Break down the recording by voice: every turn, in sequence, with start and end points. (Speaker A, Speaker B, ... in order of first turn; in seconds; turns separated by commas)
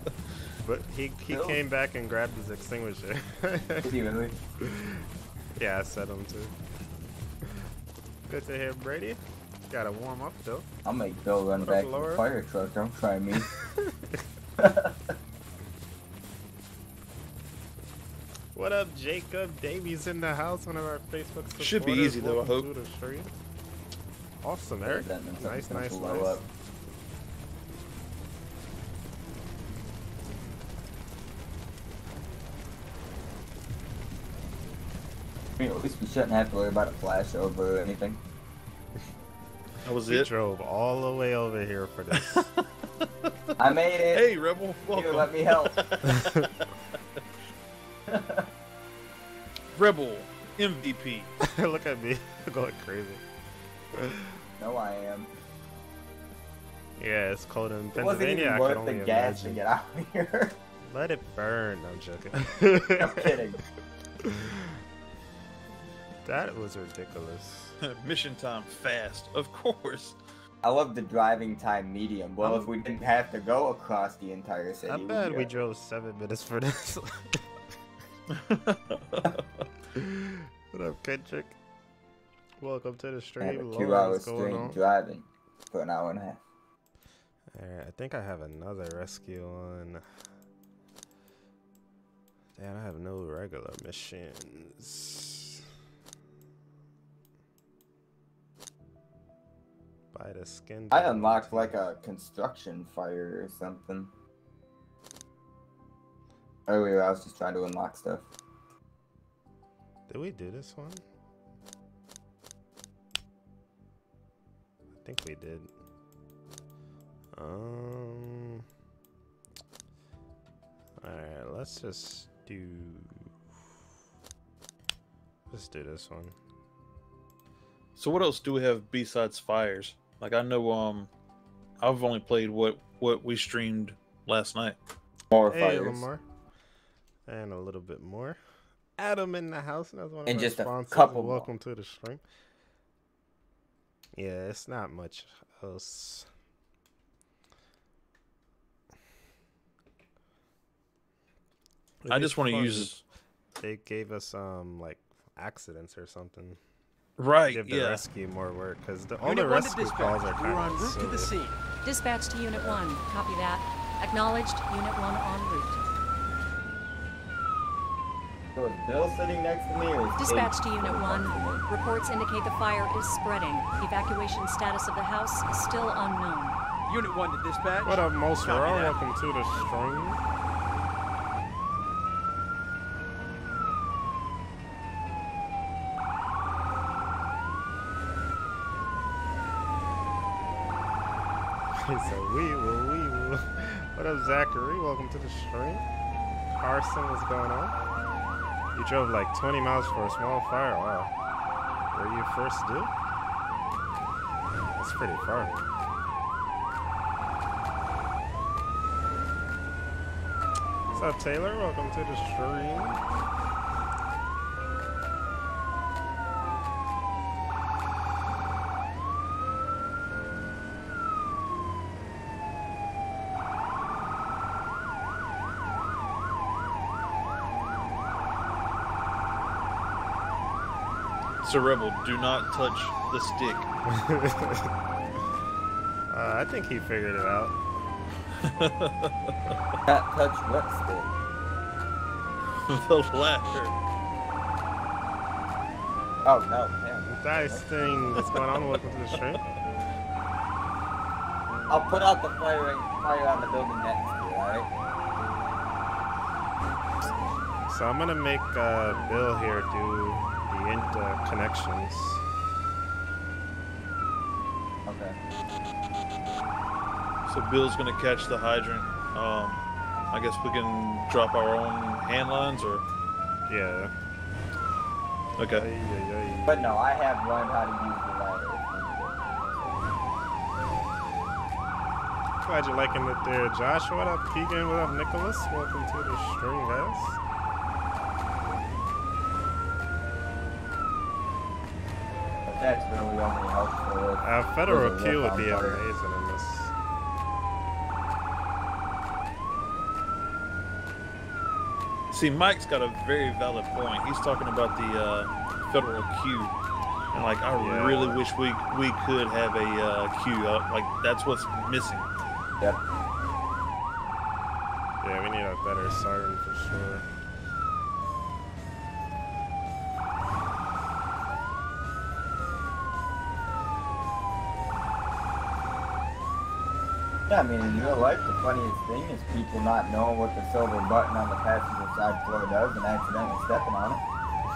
Speaker A: 0.6-3.9, Speaker B: 1.3-1.6, Speaker B: 3.8-4.4, Speaker A: 4.6-5.0, Speaker A: 5.6-6.5, Speaker A: 8.3-10.7, Speaker B: 10.8-13.5, Speaker A: 11.6-12.2, Speaker A: 13.5-14.2, Speaker B: 14.6-15.1, Speaker A: 18.5-23.3, Speaker C: 21.6-22.7, Speaker A: 24.4-26.4, Speaker B: 24.9-26.4, Speaker B: 35.6-38.2, Speaker C: 39.8-40.3, Speaker A: 40.1-42.5, Speaker C: 42.1-43.0, Speaker B: 43.6-44.2, Speaker C: 43.6-47.0, Speaker B: 44.9-45.8, Speaker A: 46.1-46.5, Speaker B: 48.1-48.5, Speaker C: 49.8-51.3, Speaker A: 51.4-53.2, Speaker A: 53.9-54.4, Speaker B: 54.6-55.3, Speaker A: 57.0-59.6, Speaker B: 57.9-60.6, Speaker A: 60.9-63.3, Speaker B: 63.0-63.6, Speaker A: 64.2-64.7, Speaker A: 66.2-67.8, Speaker C: 67.8-70.2, Speaker B: 70.6-75.5, Speaker A: 74.8-77.4, Speaker C: 78.3-79.4, Speaker A: 79.9-81.5, Speaker A: 82.6-84.8, Speaker B: 83.4-86.4, Speaker A: 87.5-90.0, Speaker A: 92.5-95.6, Speaker A: 100.1-101.8, Speaker B: 100.9-104.1, Speaker B: 106.7-108.2, Speaker A: 110.1-111.0, Speaker A: 115.0-115.7, Speaker A: 117.3-118.6, Speaker A: 121.0-123.3, Speaker A: 125.5-126.3, Speaker C: 128.0-131.1, Speaker C: 131.8-134.8, Speaker B: 135.3-136.0, Speaker A: 135.5-136.2, Speaker A: 137.3-138.4, Speaker A: 139.0-142.2, Speaker B: 140.2-141.5, Speaker A: 144.2-146.3, Speaker A: 152.0-153.0, Speaker C: 152.1-152.9, Speaker A: 153.6-156.6, Speaker C: 157.2-158.0, Speaker A: 157.5-161.3, Speaker D: 159.2-161.6, Speaker E: 161.8-165.8, Speaker B: 162.5-162.8, Speaker B: 168.6-171.6, Speaker E: 170.2-176.6, Speaker D: 176.9-178.9, Speaker A: 177.8-180.2, Speaker A: 191.8-195.8, Speaker A: 196.5-197.8, Speaker A: 198.7-201.1, Speaker A: 201.9-202.9, Speaker A: 204.7-205.6, Speaker A: 210.9-213.0, Speaker C: 231.4-233.7, Speaker A: 233.9-234.7, Speaker A: 236.1-237.6, Speaker C: 238.4-239.3, Speaker B: 239.8-241.1, Speaker C: 242.6-243.7, Speaker B: 246.2-247.7, Speaker A: 247.1-249.4, Speaker C: 248.3-248.8, Speaker B: 251.7-254.7, Speaker A: 257.7-262.2, Speaker B: 264.9-265.1, Speaker C: 267.3-272.8, Speaker A: 273.5-273.9, Speaker C: 275.4-275.7, Speaker A: 275.6-276.7, Speaker B: 276.4-279.7, Speaker A: 282.4-287.2, Speaker B: 292.4-295.8, Speaker A: 294.2-296.7, Speaker C: 302.1-306.5, Speaker C: 307.1-312.1, Speaker A: 307.5-308.2, Speaker A: 315.0-317.1, Speaker B: 327.3-334.0